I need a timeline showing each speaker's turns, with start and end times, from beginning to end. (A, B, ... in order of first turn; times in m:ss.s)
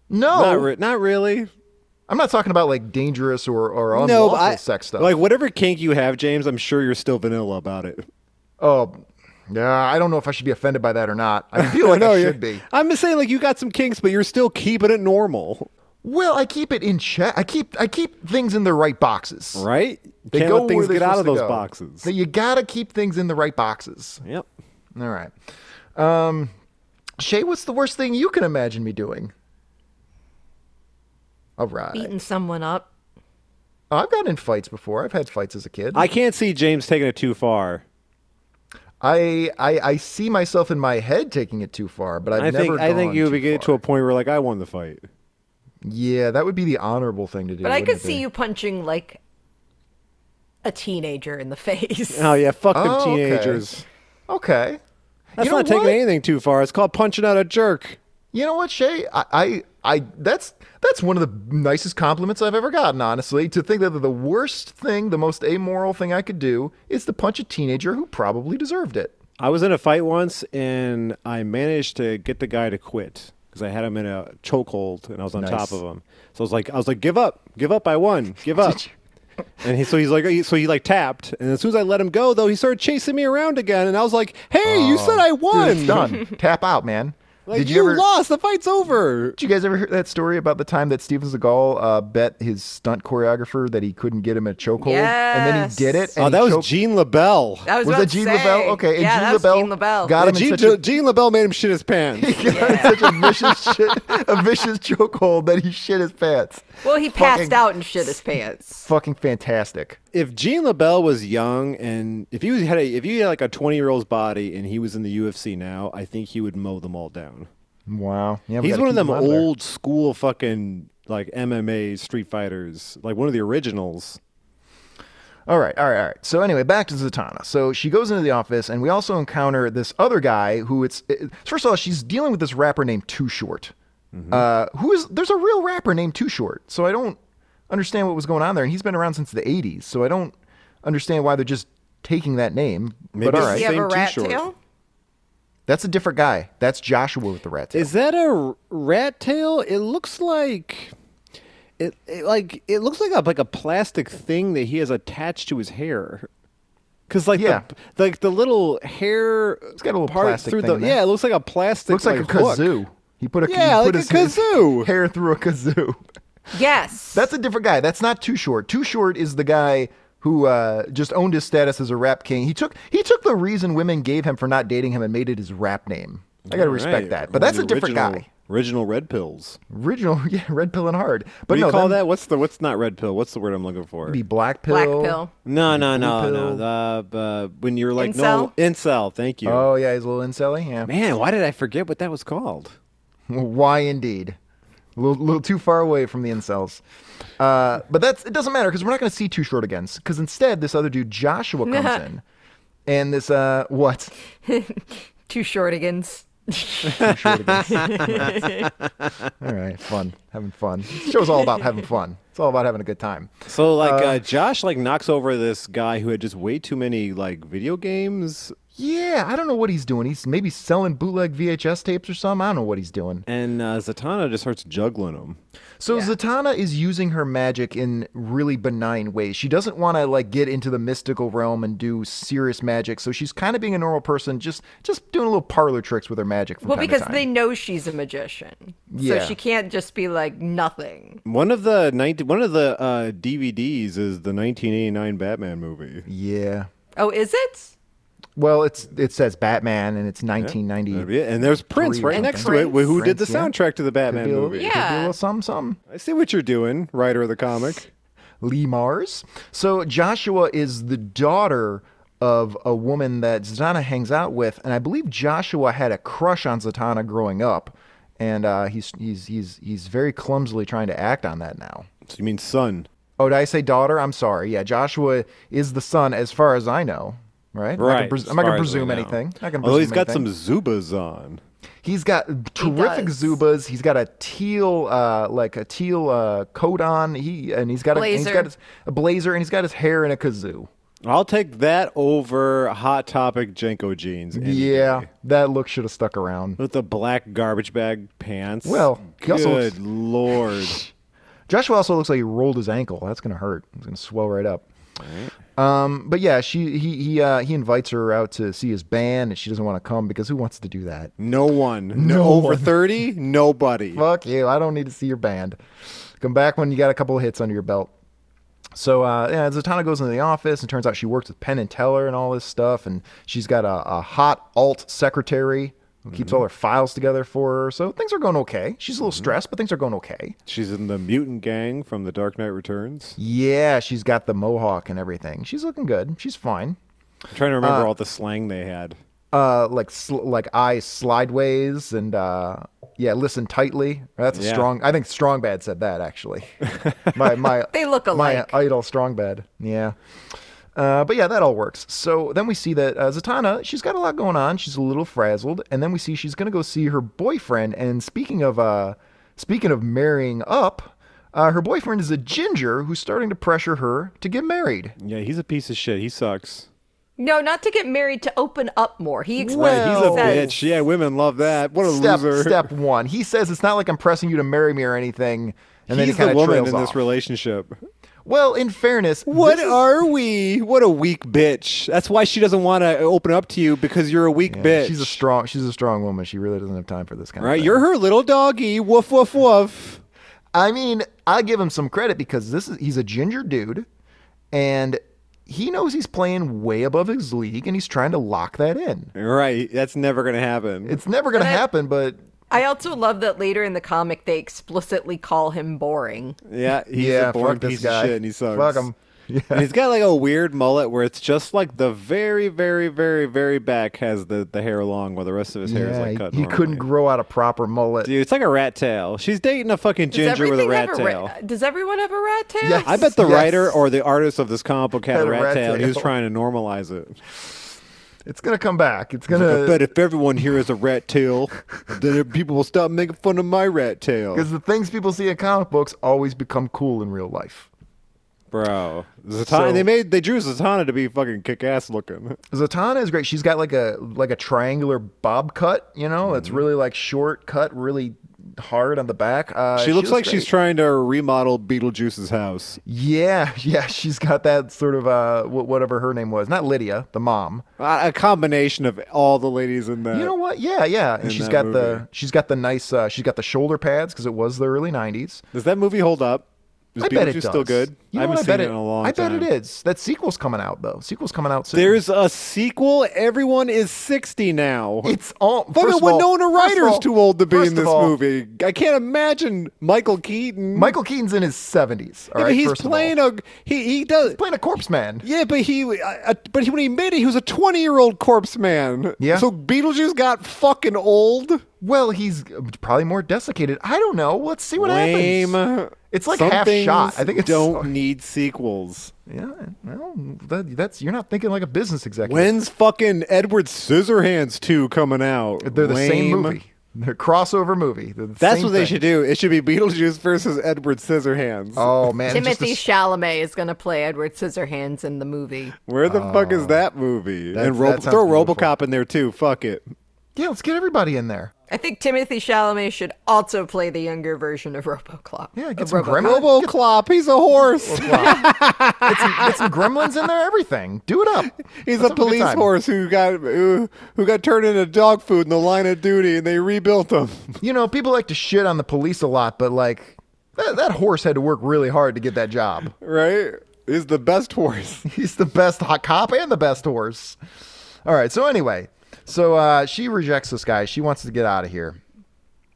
0:00.1-0:00.7 A
0:00.3-0:01.5 B
0:02.1-0:05.1 A
0:03.9-0:08.1 B
0:08.6-0:12.6 A
0:11.6-0:15.7 B
0:16.0-0:19.7 A
0:19.5-0:22.1 B
0:20.3-0:24.2 A
0:24.9-0:25.3 A
0:25.9-0:26.5 A
0:27.2-0:29.3 A
0:31.6-0:32.1 A
0:31.9-0:32.9 C
0:33.9-0:36.1 A
0:35.9-0:37.8 B
0:39.0-0:43.8 A
0:42.4-0:45.0 B
0:45.8-0:48.2 A
0:47.6-0:49.2 C
0:50.6-0:52.3 C
0:52.1-0:53.8 B
0:52.7-0:53.6 A
0:54.3-0:54.8 A
0:55.4-0:56.0 A
0:55.4-0:58.0 B
0:58.3-1:09.1 A
1:09.4-1:18.8 B
1:15.3-1:15.8 A
1:18.6-1:18.9 A
1:19.6-1:26.2 B
1:24.6-1:28.0 A
1:27.4-1:29.4 B
1:29.4-1:36.7 A
1:34.8-1:36.1 C
1:36.2-1:37.7 B
1:37.6-1:40.2 C
1:37.8-1:40.9 A
1:40.2-1:42.9 B
1:42.2-1:47.6 A
1:42.5-1:43.3 C
1:46.8-1:48.9 C
1:48.8-1:50.0 A
1:50.1-1:57.5 B
1:57.9-1:59.5 A
1:58.6-2:04.2 B
2:05.5-2:13.7 A
2:14.1-2:14.4 B
2:14.3-2:23.7 A
2:23.1-2:24.4 B
2:23.3-2:24.5 C
2:25.7-2:27.9 A
2:27.7-2:30.9 B
2:31.8-2:36.3 B
2:37.1-2:42.7 B
2:37.3-2:37.6 A
2:39.8-2:41.0 A
2:41.9-2:46.0 A
2:43.4-2:44.9 B
2:46.5-2:47.3 C
2:47.1-2:58.2 A
2:56.4-2:59.6 B
2:59.7-3:02.0 A
3:01.5-3:04.2 B
3:04.0-3:06.6 A
3:04.7-3:05.3 C
3:05.4-3:09.7 B
3:08.0-3:08.5 C
3:09.4-3:10.9 A
3:10.8-3:12.8 B
3:13.3-3:14.4 A
3:15.0-3:16.8 A
3:17.4-3:22.2 A
3:21.7-3:22.0 C
3:22.9-3:24.1 A
3:24.4-3:27.1 C
3:26.9-3:29.3 B
3:26.9-3:28.4 A
3:27.7-3:28.7 C
3:29.4-3:34.3 A
3:33.5-3:38.6 B
3:38.8-3:43.2 A
3:43.3-3:45.4 B
3:45.8-3:57.3 A
3:45.9-3:46.1 C
3:56.6-4:01.2 C
3:58.9-3:59.4 A
4:01.2-4:06.1 B
4:06.1-4:06.7 A
4:07.0-4:07.7 C
4:08.4-4:11.1 A
4:10.4-4:14.7 B
4:11.7-4:13.5 A
4:12.1-4:12.9 C
4:14.1-4:15.8 A
4:14.6-4:15.2 C
4:15.9-4:17.9 B
4:18.4-4:31.9 A
4:32.0-4:32.9 B
4:33.2-4:40.3 A
4:37.8-4:41.4 B
4:41.8-4:50.7 A
4:42.6-4:43.4 C
4:47.9-4:48.5 C
4:51.0-4:55.1 B
4:54.3-4:56.6 A
4:56.6-5:00.8 B
4:58.6-4:59.8 A
5:01.5-5:04.6 A
5:05.0-5:05.3 B
5:05.6-5:11.1 A
5:11.2-5:14.0 B
5:11.9-5:12.8 A
5:13.9-5:15.6 A
5:16.2-5:17.9 A
5:18.7-5:30.3 A
5:26.1-5:26.4 B
5:30.5-5:33.2 B
5:33.2-5:36.8 A
5:37.3-5:39.0 B
5:37.6-5:37.9 A
5:39.3-5:46.6 A
5:44.3-5:44.7 B
5:46.8-5:47.1 B
5:47.1-5:50.0 A
5:47.7-5:48.5 C
5:50.7-6:04.9 A
6:05.0-6:06.7 B
6:07.2-6:10.6 C
6:09.4-6:10.6 A
6:09.5-6:12.7 B
6:11.8-6:17.0 A
6:15.9-6:17.8 B
6:18.2-6:19.8 A
6:19.3-6:25.2 B
6:24.5-6:27.8 A
6:27.4-6:30.0 B
6:30.5-6:33.9 A
6:34.5-6:39.1 A
6:39.1-6:41.0 B
6:40.8-6:42.2 A
6:41.3-6:41.6 C
6:42.5-6:46.4 C
6:46.5-6:48.9 B
6:46.9-6:49.7 A
6:49.5-6:56.8 B
6:55.6-6:58.1 A
6:58.0-7:01.3 B
7:00.1-7:03.0 C
7:02.6-7:03.8 A
7:02.8-7:07.2 B
7:05.1-7:06.1 A
7:08.2-7:09.9 A
7:09.3-7:14.5 B
7:14.3-7:17.7 A
7:18.5-7:22.4 B
7:19.5-7:19.9 A
7:22.5-7:30.5 A
7:26.2-7:26.6 B
7:29.8-7:32.8 B
7:32.8-7:37.6 A
7:37.8-7:40.3 B
7:40.1-7:45.4 A
7:41.2-7:42.0 B
7:45.5-7:49.5 B
7:47.0-7:52.0 A
7:51.7-7:55.1 B
7:55.0-7:58.2 A
7:55.7-8:00.9 B
8:00.7-8:03.1 A
8:02.3-8:04.4 B
8:04.3-8:05.2 A
8:05.2-8:11.6 B
8:09.2-8:09.5 A
8:11.8-8:15.6 A
8:14.8-8:19.1 B
8:16.1-8:17.9 A
8:19.3-8:22.5 A
8:22.2-8:26.6 B
8:25.6-8:29.0 A
8:28.4-8:31.9 B
8:31.8-8:32.8 A
8:32.3-8:35.7 C
8:35.8-8:39.9 B
8:36.1-8:36.8 A
8:37.5-8:38.7 A
8:40.3-8:41.5 A
8:41.7-8:46.4 C
8:45.6-8:46.7 A
8:46.2-8:49.8 B
8:47.6-8:48.5 A
8:49.0-8:52.7 A
8:51.8-8:57.6 B
8:57.6-9:02.9 A
9:03.0-9:05.0 B
9:05.0-9:07.4 A
9:08.0-9:12.0 A